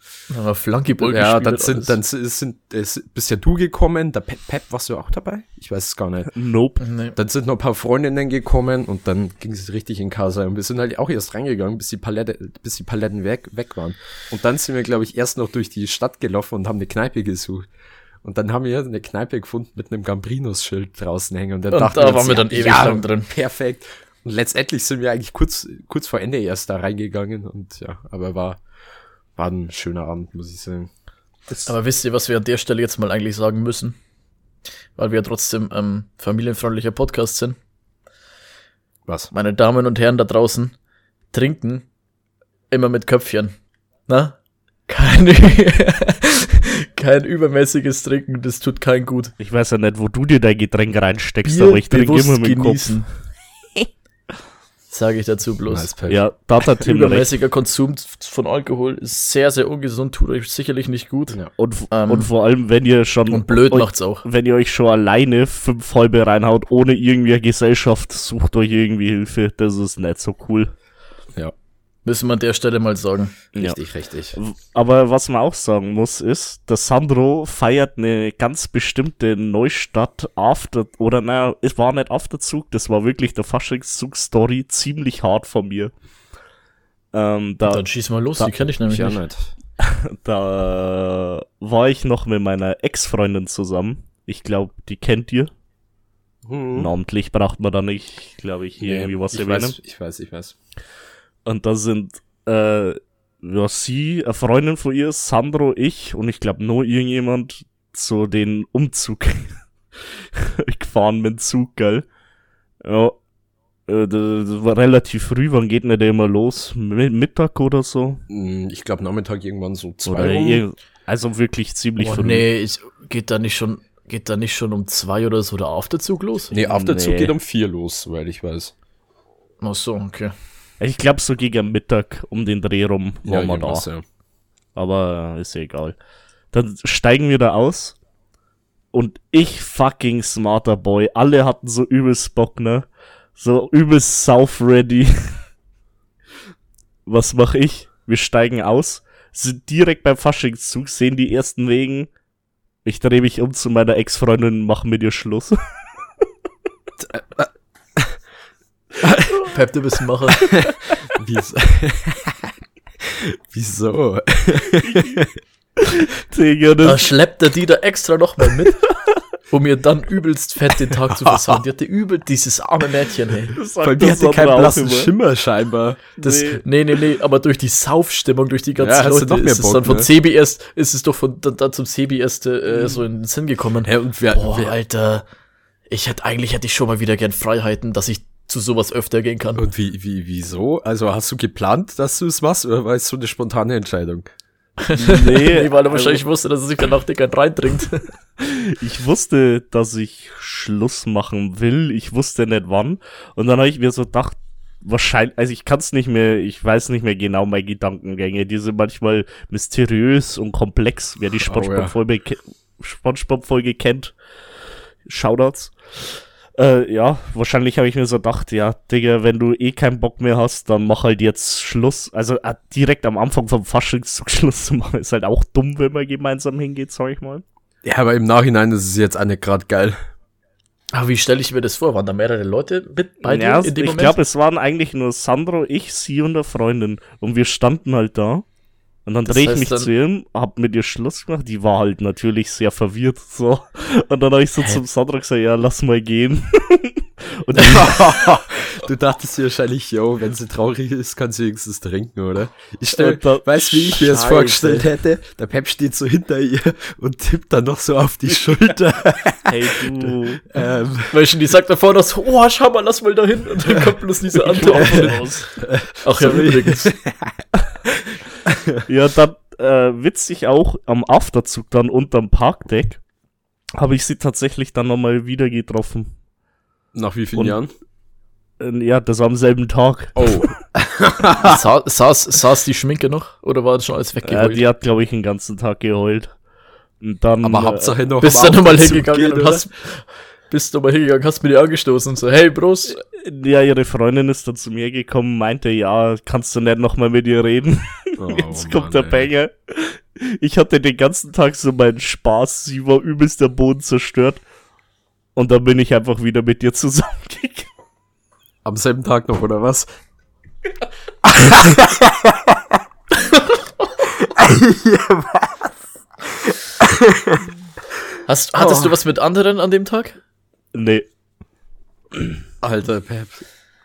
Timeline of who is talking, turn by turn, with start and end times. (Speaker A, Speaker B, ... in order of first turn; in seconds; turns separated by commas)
Speaker A: 0.3-1.9, Speaker B: 1.0-6.3, Speaker C: 6.3-6.8, Speaker A: 6.8-7.2, Speaker B: 7.1-17.6, Speaker B: 18.2-28.6, Speaker A: 21.7-23.3, Speaker B: 29.4-30.9, Speaker A: 31.6-33.9, Speaker A: 35.0-37.5, Speaker A: 39.3-40.7, Speaker A: 41.3-41.9, Speaker A: 42.7-43.5, Speaker A: 44.1-44.4, Speaker A: 44.9-49.3, Speaker C: 49.4-53.0, Speaker A: 51.4-53.1, Speaker A: 54.9-55.9, Speaker B: 55.7-56.2, Speaker C: 56.1-57.3, Speaker A: 56.7-61.4, Speaker C: 61.6-70.7, Speaker A: 61.9-62.3, Speaker A: 63.3-64.2, Speaker A: 72.0-73.3, Speaker B: 73.5-74.4, Speaker C: 74.3-85.9, Speaker C: 87.1-87.8, Speaker A: 87.7-89.2, Speaker B: 88.9-89.5, Speaker C: 89.8-95.5, Speaker B: 96.4-96.9, Speaker C: 96.7-99.8, Speaker B: 98.8-100.5, Speaker C: 101.5-112.0, Speaker C: 112.8-113.2, Speaker C: 113.9-118.2, Speaker B: 118.3-120.6, Speaker C: 120.0-122.5, Speaker A: 122.0-126.5, Speaker B: 126.5-128.7, Speaker C: 126.6-127.3, Speaker A: 129.6-130.3, Speaker C: 130.8-133.9, Speaker B: 133.2-134.0, Speaker C: 134.7-135.9, Speaker C: 136.5-138.0, Speaker C: 138.9-145.4, Speaker C: 147.1-152.1, Speaker C: 152.8-155.6, Speaker B: 157.0-158.2, Speaker B: 159.0-159.3, Speaker A: 159.4-160.7, Speaker B: 160.5-165.3, Speaker C: 164.8-165.2, Speaker C: 165.8-167.1, Speaker A: 166.8-168.9, Speaker A: 169.5-173.5, Speaker B: 171.1-171.6, Speaker C: 173.5-175.1, Speaker B: 173.8-176.1, Speaker C: 176.2-176.6, Speaker A: 176.2-185.2, Speaker B: 178.8-180.1, Speaker B: 182.7-183.0, Speaker B: 183.8-184.7, Speaker A: 185.9-189.6, Speaker B: 189.6-194.3, Speaker A: 194.8-198.1, Speaker C: 194.9-196.2, Speaker C: 198.4-214.2, Speaker B: 211.4-211.9, Speaker C: 215.0-227.4, Speaker B: 227.8-230.0, Speaker A: 230.9-234.2, Speaker C: 233.2-238.4, Speaker C: 239.1-248.3, Speaker A: 239.2-239.9, Speaker B: 247.6-261.1, Speaker C: 252.9-254.2, Speaker A: 254.0-254.9, Speaker C: 259.4-260.4, Speaker A: 261.1-265.5, Speaker B: 263.7-267.3, Speaker C: 264.6-265.5, Speaker A: 266.0-266.9, Speaker B: 267.9-268.8, Speaker C: 268.9-273.0, Speaker C: 273.8-276.1, Speaker B: 276.9-277.7, Speaker C: 278.6-280.5, Speaker B: 280.1-281.6, Speaker A: 281.4-284.6, Speaker C: 284.2-286.3, Speaker C: 287.0-288.0, Speaker B: 287.4-289.6, Speaker A: 288.2-293.0, Speaker C: 292.9-304.4, Speaker B: 298.2-299.3, Speaker C: 305.4-307.7, Speaker B: 308.6-309.9, Speaker B: 311.2-312.6, Speaker B: 314.2-315.7, Speaker B: 316.3-317.5, Speaker A: 318.2-320.2, Speaker B: 318.6-319.0, Speaker C: 320.7-321.1, Speaker B: 322.6-323.4